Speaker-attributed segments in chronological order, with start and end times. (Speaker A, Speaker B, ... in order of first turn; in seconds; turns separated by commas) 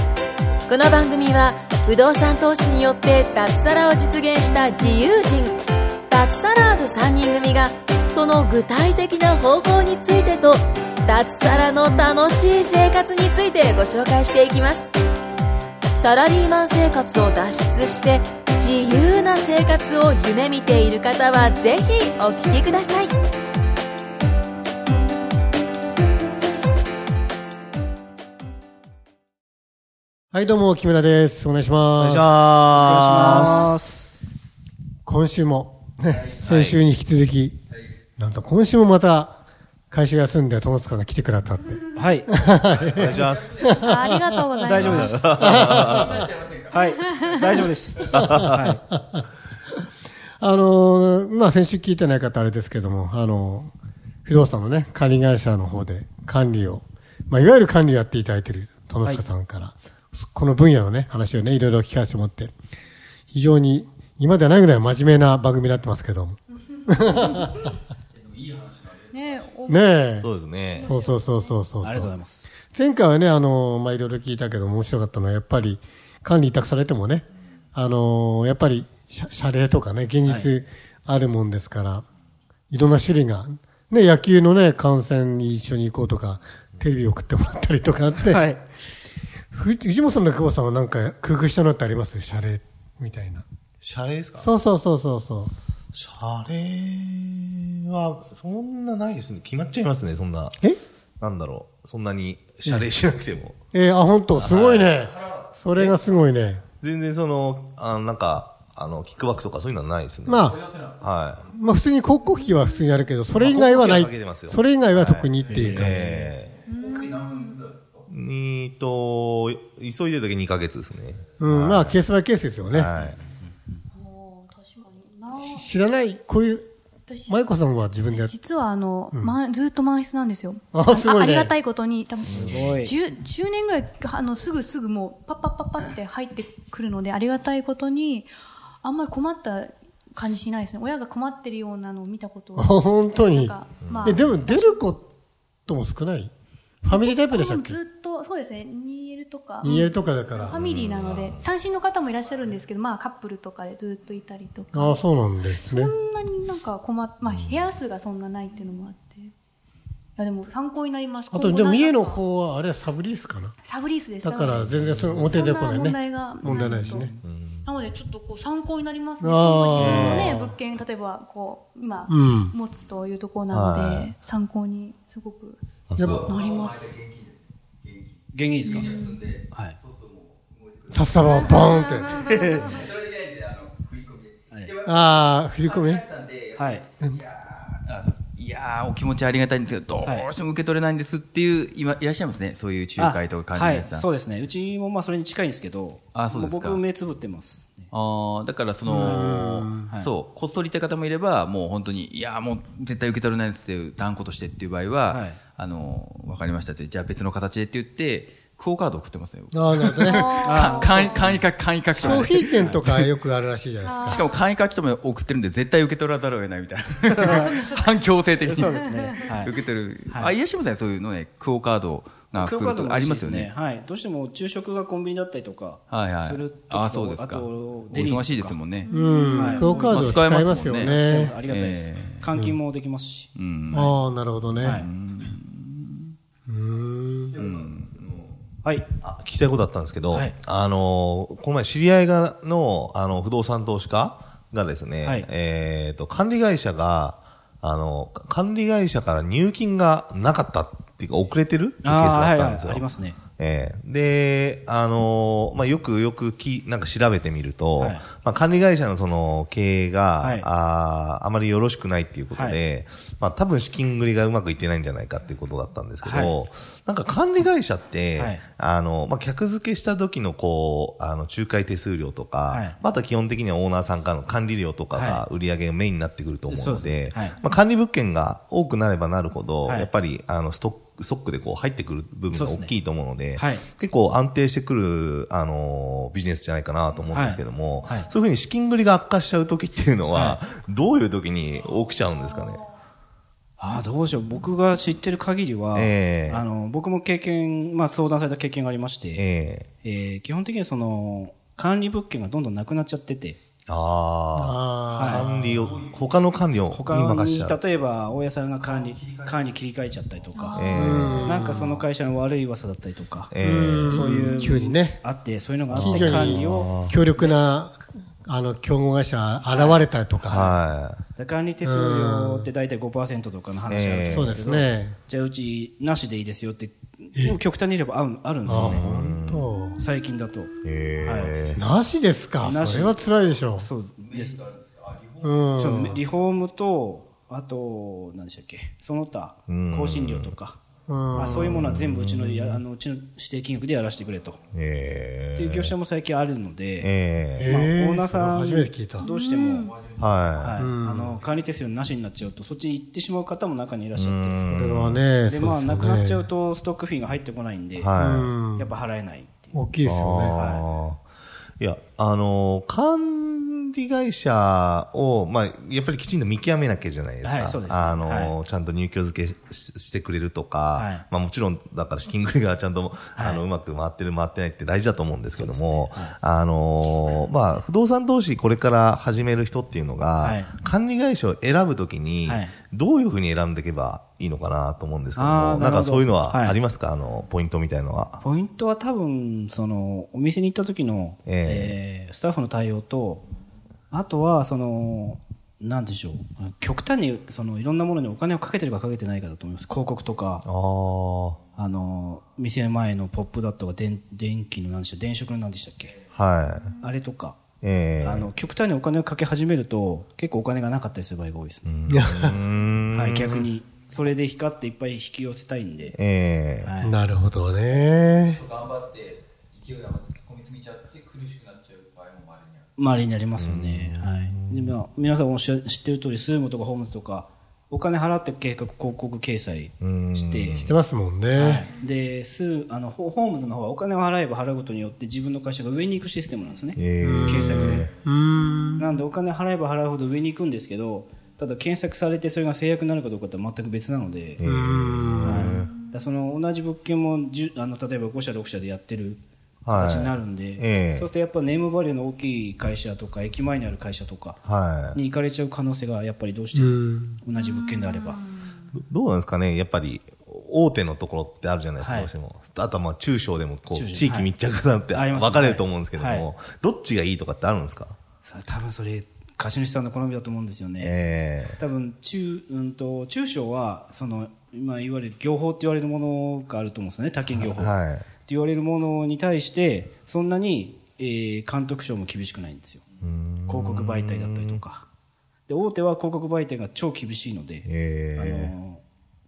Speaker A: 0.7-14.9, Speaker A: 16.0-23.1, Speaker B: 30.3-32.3, Speaker C: 32.0-33.7, Speaker D: 32.7-34.1, Speaker B: 33.2-33.7, Speaker B: 35.0-37.6, Speaker E: 36.1-36.5, Speaker C: 36.5-36.8, Speaker B: 38.2-39.4, Speaker B: 39.9-46.3, Speaker D: 42.0-42.3, Speaker E: 42.8-43.7, Speaker C: 42.9-43.8, Speaker F: 43.8-45.3, Speaker D: 44.7-45.2, Speaker C: 44.9-46.1, Speaker E: 45.4-47.5, Speaker D: 46.7-48.8, Speaker C: 48.1-48.6, Speaker B: 49.0-49.2, Speaker B: 50.4-53.7, Speaker B: 54.2-62.5, Speaker B: 63.3-67.6, Speaker E: 68.1-69.5, Speaker F: 69.1-71.6, Speaker B: 69.7-72.1, Speaker C: 70.2-70.9, Speaker D: 71.8-72.5, Speaker B: 72.7-82.0, Speaker B: 82.7-88.5, Speaker D: 88.2-88.6, Speaker B: 89.5-93.4, Speaker C: 93.8-94.5, Speaker B: 94.4-95.5, Speaker C: 95.9-100.6, Speaker C: 101.2-103.6, Speaker B: 103.7-106.6, Speaker C: 104.4-104.9, Speaker C: 106.8-111.5, Speaker B: 110.2-110.6, Speaker B: 111.5-116.2, Speaker C: 113.3-116.6, Speaker F: 116.7-117.6, Speaker E: 116.9-117.8, Speaker C: 118.1-122.0, Speaker B: 121.4-122.9, Speaker C: 122.7-123.2, Speaker F: 123.9-125.7, Speaker B: 125.3-126.7, Speaker F: 127.1-127.3, Speaker B: 127.3-128.4, Speaker F: 128.1-138.3, Speaker B: 130.7-131.5, Speaker C: 132.3-132.7, Speaker D: 132.3-132.9, Speaker F: 138.8-144.8, Speaker B: 142.5-145.1, Speaker C: 143.8-144.2, Speaker B: 145.7-146.3, Speaker B: 146.8-147.8, Speaker F: 146.9-159.3, Speaker B: 149.6-150.7, Speaker C: 150.5-151.5, Speaker B: 154.7-155.9, Speaker C: 157.3-157.8, Speaker F: 160.2-162.2, Speaker B: 161.3-163.6, Speaker F: 163.6-167.1, Speaker B: 164.2-167.1, Speaker C: 164.7-165.3, Speaker D: 166.5-167.2, Speaker C: 167.2-167.7, Speaker F: 167.6-175.6, Speaker B: 169.2-170.6, Speaker C: 169.7-170.4, Speaker B: 172.1-172.6, Speaker C: 173.5-174.1, Speaker C: 175.9-176.3, Speaker E: 176.0-194.1, Speaker F: 176.2-177.0, Speaker D: 178.3-178.9, Speaker F: 178.8-179.1, Speaker D: 179.5-179.8, Speaker B: 180.9-182.2, Speaker D: 182.3-182.8, Speaker B: 184.8-186.0, Speaker D: 186.6-186.8, Speaker D: 190.0-190.3, Speaker D: 193.0-197.9, Speaker E: 196.1-196.8, Speaker E: 197.9-213.1, Speaker D: 198.9-199.3, Speaker B: 198.9-199.9, Speaker D: 205.1-205.4, Speaker B: 209.5-210.3, Speaker F: 210.1-211.3, Speaker D: 210.4-211.4, Speaker B: 211.9-214.2, Speaker D: 212.4-212.8, Speaker F: 213.9-214.3, Speaker E: 214.0-223.5, Speaker D: 217.2-217.7, Speaker D: 218.4-219.5, Speaker D: 222.3-228.6, Speaker E: 225.9-228.9, Speaker F: 228.8-230.0, Speaker B: 228.9-231.4, Speaker D: 229.3-233.3, Speaker E: 229.8-232.2, Speaker E: 233.3-234.0, Speaker B: 233.7-234.8, Speaker D: 234.6-234.9, Speaker E: 234.6-236.1, Speaker B: 236.5-237.4, Speaker E: 237.3-238.4, Speaker D: 238.6-238.9, Speaker C: 239.0-292.6, Speaker D: 240.1-240.3, Speaker D: 245.0-245.3, Speaker D: 251.8-253.2, Speaker D: 257.8-258.1, Speaker D: 260.2-260.5, Speaker D: 262.3-262.6, Speaker D: 266.0-266.3, Speaker D: 268.2-268.4, Speaker D: 272.5-272.8, Speaker D: 274.9-275.2, Speaker D: 276.5-277.4, Speaker D: 279.6-279.9, Speaker D: 282.3-282.7, Speaker D: 283.4-283.7, Speaker D: 287.1-288.1, Speaker D: 290.1-290.4, Speaker D: 293.6-299.2, Speaker C: 295.7-296.4, Speaker C: 299.1-299.7, Speaker D: 299.8-303.4, Speaker C: 303.7-307.6, Speaker B: 304.4-305.2, Speaker D: 304.9-305.3, Speaker E: 305.3-305.9, Speaker D: 306.7-310.7, Speaker F: 310.4-311.2, Speaker C: 310.6-311.4, Speaker B: 310.7-311.7, Speaker D: 311.2-313.3, Speaker C: 313.3-314.5, Speaker B: 313.4-315.0, Speaker D: 313.9-317.4, Speaker B: 315.7-320.5, Speaker C: 315.7-317.0, Speaker D: 319.4-320.5, Speaker C: 320.3-321.0, Speaker D: 321.1-328.9, Speaker B: 321.6-322.5, Speaker C: 323.7-324.4, Speaker B: 324.1-325.0, Speaker B: 328.5-329.8, Speaker C: 328.6-329.5, Speaker D: 329.8-331.3, Speaker C: 330.6-331.6, Speaker B: 331.5-333.7, Speaker D: 332.4-333.0, Speaker D: 333.5-334.4, Speaker E: 334.0-335.4, Speaker B: 335.2-336.0, Speaker D: 335.5-340.6, Speaker C: 339.5-340.3, Speaker B: 340.9-341.8, Speaker D: 341.1-344.4, Speaker C: 341.6-342.6, Speaker C: 344.5-345.7, Speaker D: 345.4-346.9, Speaker C: 346.8-347.5, Speaker B: 347.4-349.1, Speaker D: 347.4-349.7, Speaker F: 349.0-349.8, Speaker C: 349.9-350.6, Speaker D: 350.4-359.5, Speaker B: 350.6-351.2, Speaker C: 353.9-355.0, Speaker B: 354.5-356.2, Speaker C: 357.8-358.3, Speaker B: 357.9-358.7, Speaker B: 359.5-360.3, Speaker C: 359.9-361.0, Speaker D: 360.3-360.6, Speaker C: 361.6-388.2, Speaker D: 367.2-368.3, Speaker D: 370.8-371.1, Speaker D: 373.1-373.4, Speaker D: 375.3-376.1, Speaker D: 380.2-380.5, Speaker D: 382.2-382.5, Speaker D: 385.1-386.6, Speaker D: 388.2-393.2, Speaker C: 391.2-391.8, Speaker D: 393.9-400.4, Speaker C: 400.4-401.4, Speaker D: 401.6-406.0, Speaker C: 406.1-406.7, Speaker D: 406.8-407.4, Speaker C: 407.6-408.3, Speaker D: 408.0-411.7, Speaker C: 411.6-413.3, Speaker B: 411.9-412.4, Speaker D: 412.9-416.0, Speaker C: 415.9-416.7, Speaker D: 416.6-416.9, Speaker B: 416.8-418.4, Speaker E: 418.1-422.7, Speaker D: 422.8-430.7, Speaker C: 423.4-424.8, Speaker C: 429.8-430.7, Speaker B: 430.5-431.7, Speaker D: 431.3-437.9, Speaker C: 436.8-437.9, Speaker B: 437.0-438.8, Speaker D: 438.8-444.4, Speaker C: 444.4-445.7, Speaker B: 444.4-445.5, Speaker D: 445.2-454.4, Speaker C: 449.6-451.1, Speaker C: 454.4-455.0, Speaker D: 454.9-458.2, Speaker B: 456.5-457.2, Speaker C: 458.8-468.0, Speaker D: 461.8-462.1, Speaker D: 463.7-464.3, Speaker D: 464.9-466.3, Speaker D: 468.2-470.9, Speaker C: 470.8-471.6, Speaker D: 471.6-477.7, Speaker C: 477.4-478.1, Speaker D: 478.2-482.8, Speaker C: 483.0-484.6, Speaker D: 483.5-484.9, Speaker D: 485.5-488.8, Speaker C: 487.6-488.5